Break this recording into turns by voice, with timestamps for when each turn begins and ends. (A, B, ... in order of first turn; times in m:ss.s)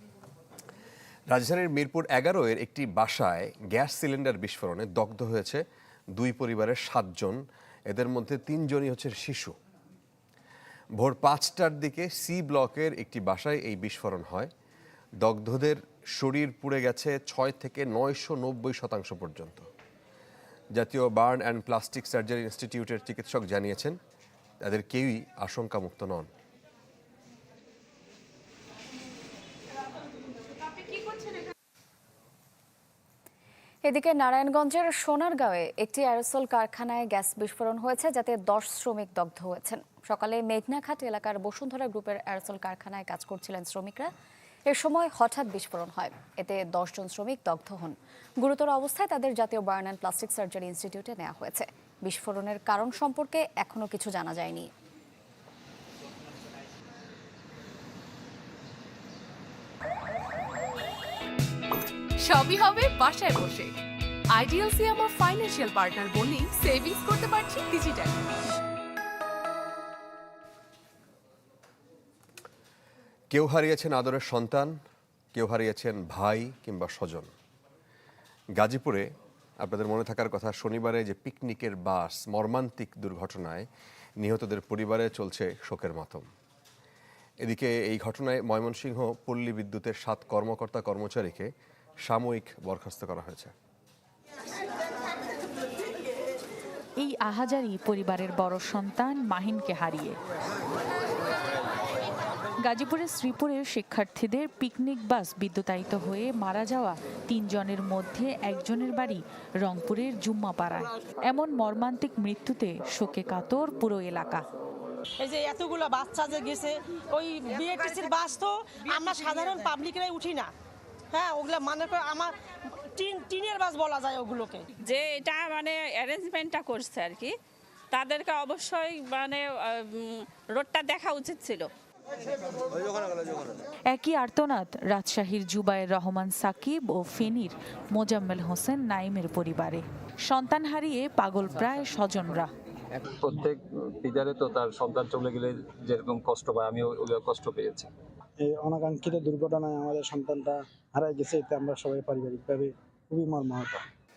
0:01.3-0:09.6 A
0:11.0-0:14.5 A
0:15.2-0:19.7 A
0:20.8-0:24.0 A
0:24.6-0:26.3 A
0:33.8-0:44.1 B
0:44.7-0:54.7 B
1:02.2-1:03.7 C
1:04.3-1:08.2 C
1:13.3-1:14.8 A
1:15.4-1:17.3 A
1:18.6-1:23.7 A
1:24.2-1:26.3 A
1:27.4-1:31.5 A
1:32.0-1:33.5 A
1:37.0-1:40.2 D
1:42.6-1:54.4 D
1:55.2-2:00.5 E
2:01.1-2:02.3 E
2:03.0-2:04.7 E
2:04.8-2:07.3 F
2:07.9-2:11.7 F
2:13.9-2:22.5 D
2:23.0-2:27.9 G
2:28.4-2:33.8 H